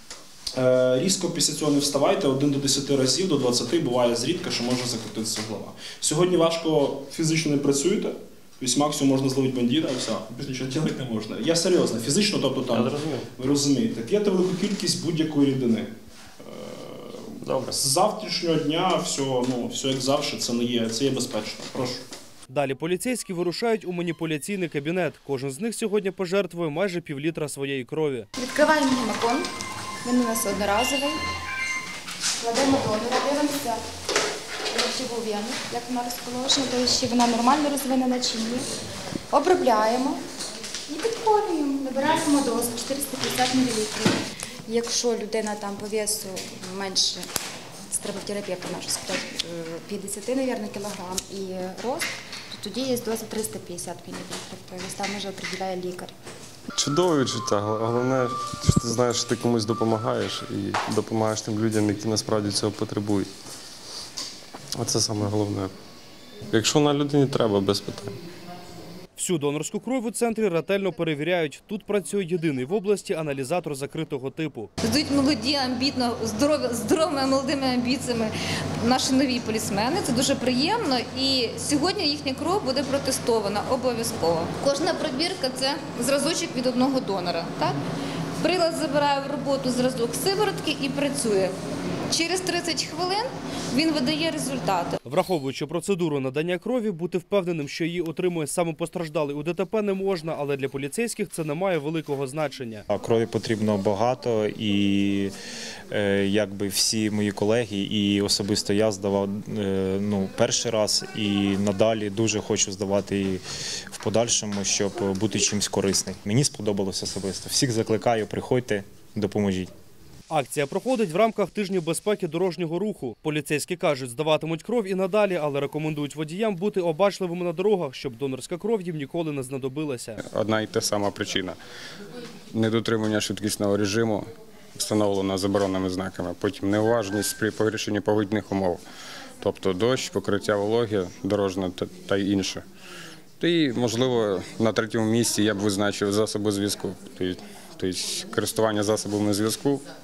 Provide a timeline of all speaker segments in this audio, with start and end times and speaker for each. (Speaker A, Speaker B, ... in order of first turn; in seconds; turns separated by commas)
Speaker A: 0.6-22.0, Speaker B: 12.7-13.3, Speaker B: 17.4-17.8, Speaker C: 22.5-28.3, Speaker D: 28.4-29.5, Speaker D: 30.0-31.2, Speaker D: 32.4-33.8, Speaker D: 34.7-38.6, Speaker D: 39.3-40.2, Speaker D: 40.9-47.3, Speaker D: 47.9-56.1, Speaker B: 56.7-63.3, Speaker B: 64.8-65.7, Speaker B: 66.5-68.2, Speaker C: 69.2-74.7, Speaker E: 74.8-87.8, Speaker E: 88.4-91.5, Speaker E: 92.1-95.0, Speaker C: 95.1-102.8, Speaker F: 102.9-105.3, Speaker F: 105.9-119.7, Speaker C: 120.3-130.2, Speaker G: 130.2-131.6, Speaker G: 132.5-138.8, Speaker G: 139.4-142.6, Speaker G: 143.4-149.8